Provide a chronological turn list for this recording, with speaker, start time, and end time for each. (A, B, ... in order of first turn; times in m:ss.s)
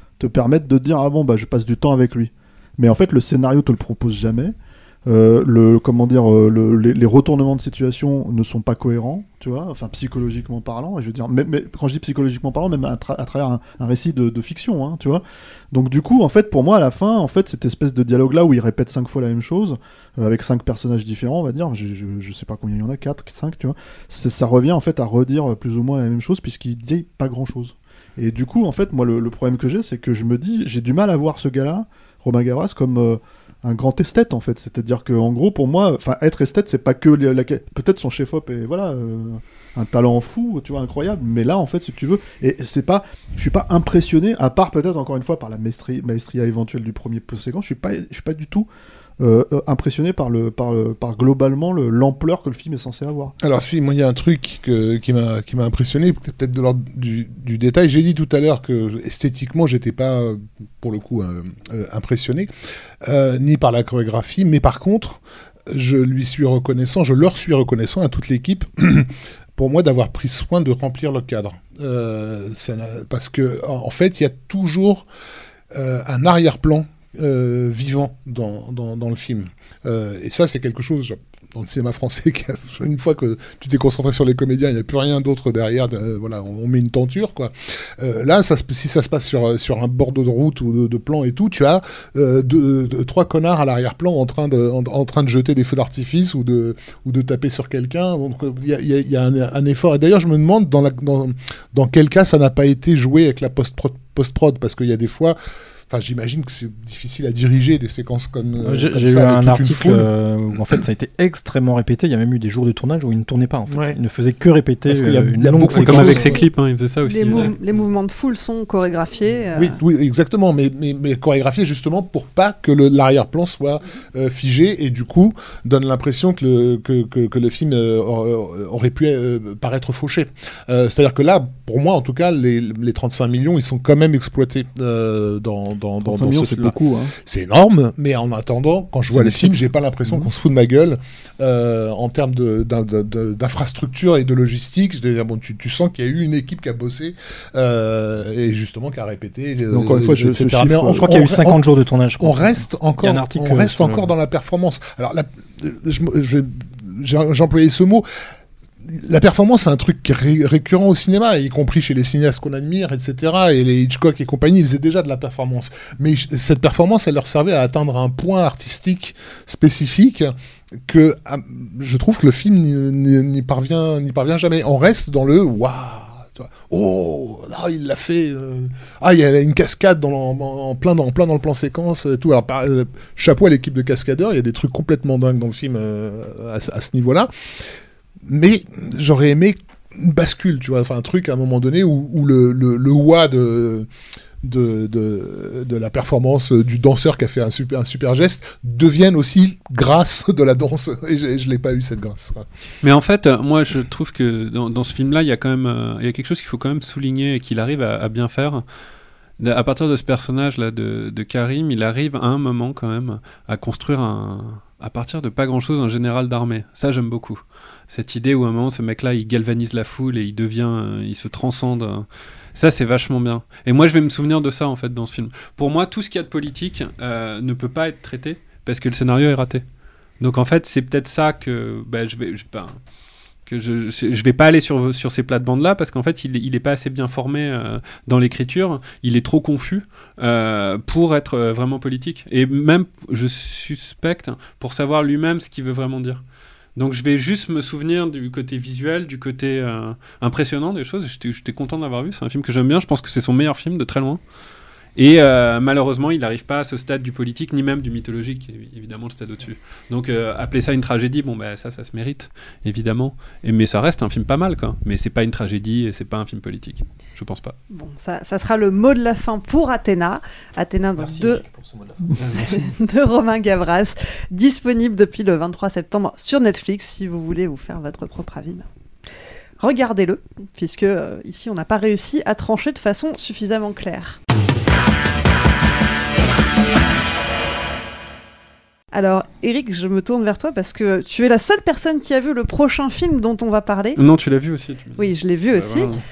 0:00.2-0:48.7 A
0:49.2-0:53.3 A
0:53.4-1:02.5 B
1:03.0-1:15.1 B
1:15.7-1:45.4 B
1:45.9-1:50.1 B
1:48.6-1:56.3 C
1:53.7-1:54.0 B
1:54.9-1:56.4 B
1:55.8-1:57.6 D
1:57.0-1:59.8 E
1:59.5-2:31.6 B
2:16.0-2:17.1 A
2:19.1-2:20.3 A
2:29.7-2:31.1 A
2:30.9-2:34.1 C
2:32.2-2:38.0 B
2:38.9-2:50.3 B
2:50.8-3:07.3 B
3:08.2-3:13.9 B
3:14.4-3:22.4 B
3:22.8-3:28.6 D
3:29.4-3:49.6 D
3:50.2-3:52.8 D
3:53.4-4:06.2 D
4:06.8-4:14.2 D
4:15.0-4:27.5 D
4:27.7-4:31.4 E
4:31.0-4:32.0 C
4:32.3-4:38.6 E
4:39.6-4:44.2 E
4:48.9-4:54.0 E
4:54.0-4:56.0 D
4:55.0-4:55.9 E